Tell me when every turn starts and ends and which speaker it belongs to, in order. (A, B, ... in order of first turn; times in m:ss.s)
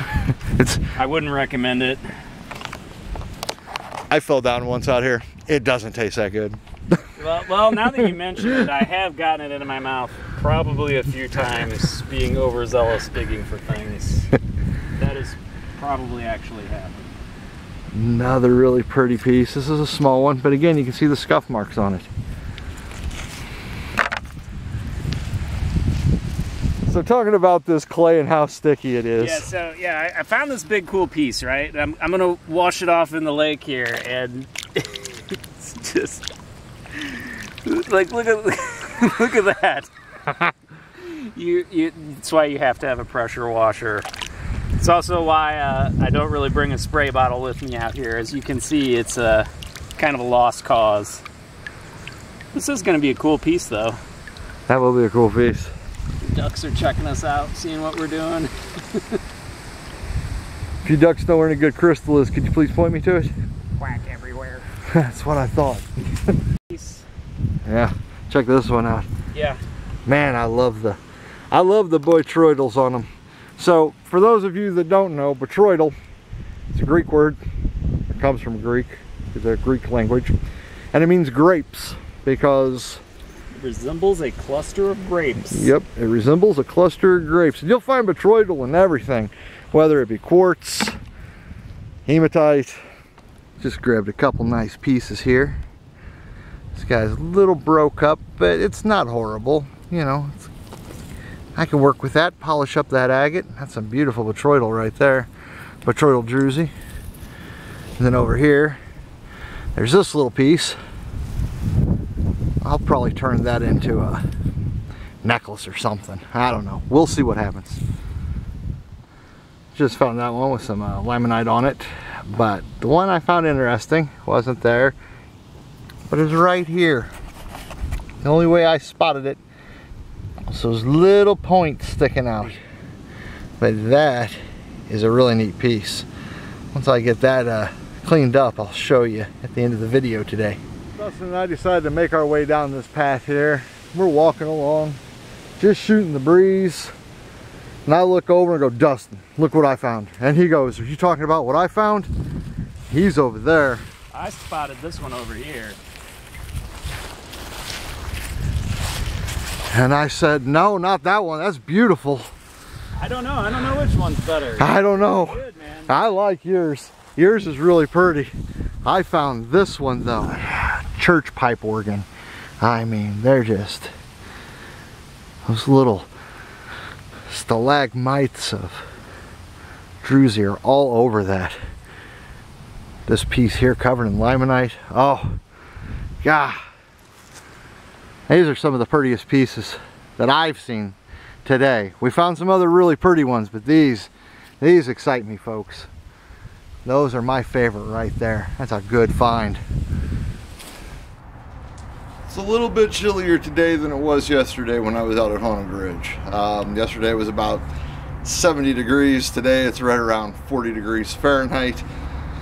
0:00.4-0:00.9 A
0:01.0-0:02.0 B
0:04.1-0:06.6 A
0:07.2-0:14.3 B
0:15.0-0:17.2 B
0:17.9-0:22.1 A
0:26.9-0:29.5 A
0:29.2-0:36.2 B
0:36.9-0:39.9 B
0:41.0-0:44.1 B
0:44.8-0:51.2 B
0:52.5-0:54.0 B
0:54.7-0:55.7 A
0:56.2-0:59.2 B
1:00.8-1:03.3 A
1:03.8-1:04.7 B
1:04.9-1:05.9 A
1:06.7-1:07.0 B
1:07.6-1:09.1 A
1:09.3-1:09.6 B
1:10.1-1:11.0 A
1:11.5-1:16.0 A
1:16.7-1:17.4 A
1:18.1-1:20.4 A
1:20.9-1:23.0 A
1:23.6-1:25.7 B
1:25.5-1:31.0 A
1:32.1-1:32.8 A
1:33.6-1:35.6 A
1:36.8-1:40.5 A
1:41.6-1:45.3 A
1:45.8-1:46.7 A
1:48.0-1:48.8 A
1:49.8-1:50.8 A
1:52.6-1:54.2 A
1:55.2-1:57.8 A
1:59.7-2:05.0 A
2:06.1-2:07.1 A
2:08.2-2:09.4 A
2:10.5-2:12.6 A
2:13.6-2:16.1 A
2:16.7-2:25.0 A
2:25.6-2:26.9 A
2:27.9-2:32.1 A
2:32.9-2:33.8 A
2:34.1-2:35.8 B
2:39.7-2:42.3 A
2:43.0-2:45.9 B
2:44.6-2:48.3 A
2:48.8-2:52.1 A
2:52.6-2:53.9 A
2:55.4-2:56.1 A
2:57.3-2:58.9 A
3:00.0-3:01.6 A
3:03.1-3:05.4 A
3:06.2-3:06.6 A
3:08.3-3:14.1 A
3:14.6-3:15.9 A
3:16.8-3:19.6 A
3:22.3-3:27.7 A
3:28.2-3:31.9 A